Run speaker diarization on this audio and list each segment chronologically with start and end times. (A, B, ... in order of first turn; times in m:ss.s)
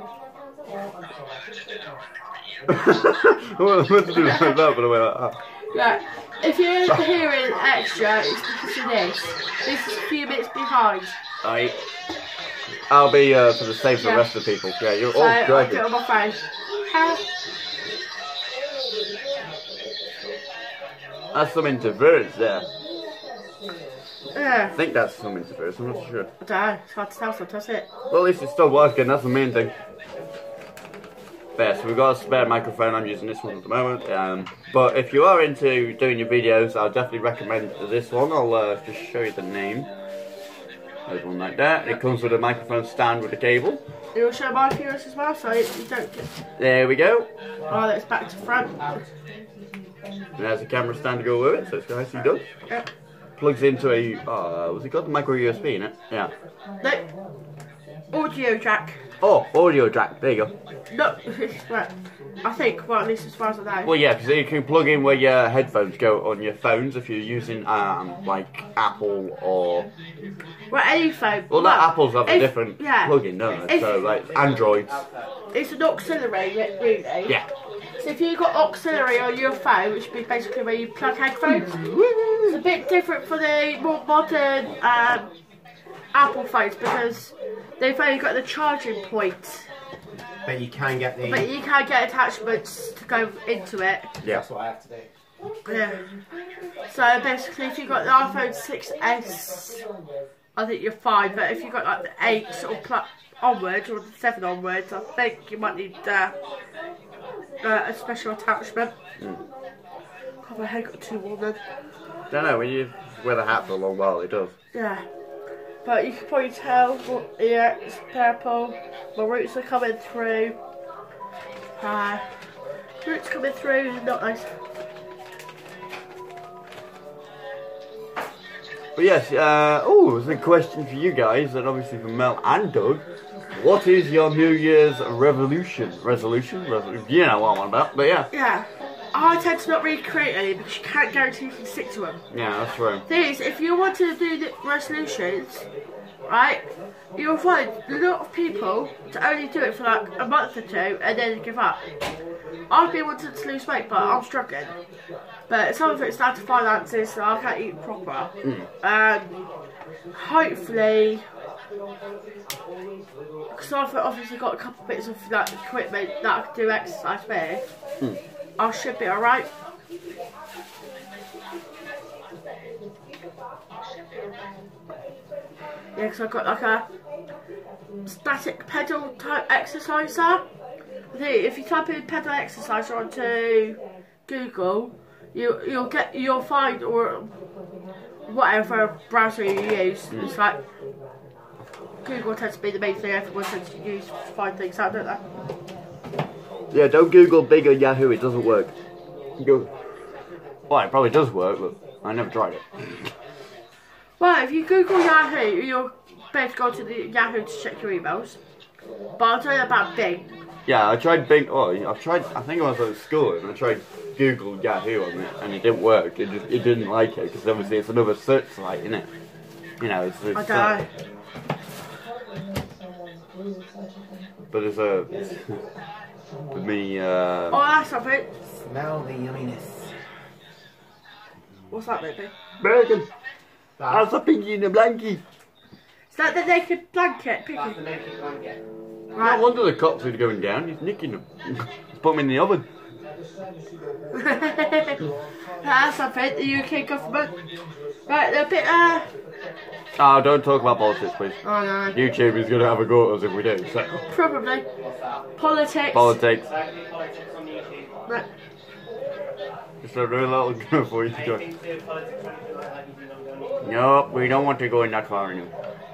0:02.7-0:05.4 A
0:04.2-0:04.6 B
0:05.7-0:11.2 B
0:11.4-0:11.8 A
0:12.9-0:15.8 A
0:14.0-0:14.3 B
0:15.1-0:17.2 B
0:21.3-0:22.7 A
0:24.3-0:24.8 B
0:24.7-0:26.3 A
0:26.4-0:27.9 B
0:28.1-0:29.7 A
0:31.6-0:39.9 A
0:41.1-0:43.8 A
0:44.1-0:46.3 B
0:46.6-0:47.3 A
0:47.7-0:49.0 B
0:50.4-0:52.4 A
0:53.4-0:56.3 A
0:56.8-0:57.1 B
0:58.1-0:59.0 B
0:59.2-1:00.5 A
1:00.9-1:01.9 B
1:02.4-1:03.9 B
1:03.8-1:09.9 A
1:10.7-1:14.0 B
1:11.5-1:15.0 A
1:15.5-1:17.4 B
1:18.0-1:21.8 B
1:21.5-1:22.6 A
1:22.5-1:25.3 B
1:26.1-1:29.7 B
1:30.4-1:31.5 C
1:31.3-1:34.1 B
1:34.2-1:35.1 C
1:35.6-1:36.0 B
1:36.9-1:39.8 B
1:40.6-1:46.3 B
1:47.6-1:48.9 B
1:50.4-1:51.6 B
1:52.3-1:54.5 A
1:54.7-1:55.0 B
1:55.8-2:00.6 B
2:01.8-2:02.3 B
2:03.0-2:04.5 B
2:09.0-2:18.3 A
2:18.3-2:22.2 B
2:22.3-2:23.0 A
2:23.0-2:25.7 B
2:26.2-2:31.8 B
2:32.7-2:34.8 B
2:35.5-2:39.4 B
2:38.4-2:38.7 A
2:40.1-2:41.2 B
2:43.5-2:47.6 B
2:48.6-2:49.5 B
2:55.9-2:56.8 B
2:58.0-3:00.4 B
3:01.1-3:07.3 B
3:08.3-3:10.6 B
3:12.0-3:15.2 B
3:16.7-3:18.7 A
3:19.4-3:19.7 A
3:20.7-3:23.1 A
3:24.2-3:28.4 B
3:29.2-3:30.3 B
3:30.6-3:39.1 A
3:39.8-3:40.8 A
3:40.3-3:40.9 B
3:44.5-3:45.6 A
3:46.5-3:47.6 A
3:47.5-3:48.3 B
3:48.4-3:50.0 C
3:51.7-3:52.3 B
3:52.6-3:53.1 A
3:53.8-3:54.1 C
3:53.9-3:55.2 A
3:56.1-3:57.8 B
3:57.5-3:58.6 C
3:59.1-3:59.4 B
3:59.2-4:02.6 A
4:04.1-4:05.1 B
4:05.6-4:07.4 B
4:08.1-4:09.1 B
4:10.0-4:11.4 A
4:11.4-4:12.0 B
4:11.9-4:14.0 A
4:14.1-4:14.6 B
4:14.8-4:15.2 C
4:15.4-4:16.2 B
4:15.9-4:16.5 A
4:16.4-4:18.2 C
4:19.8-4:21.4 A
4:21.1-4:23.6 C
4:23.6-4:25.5 A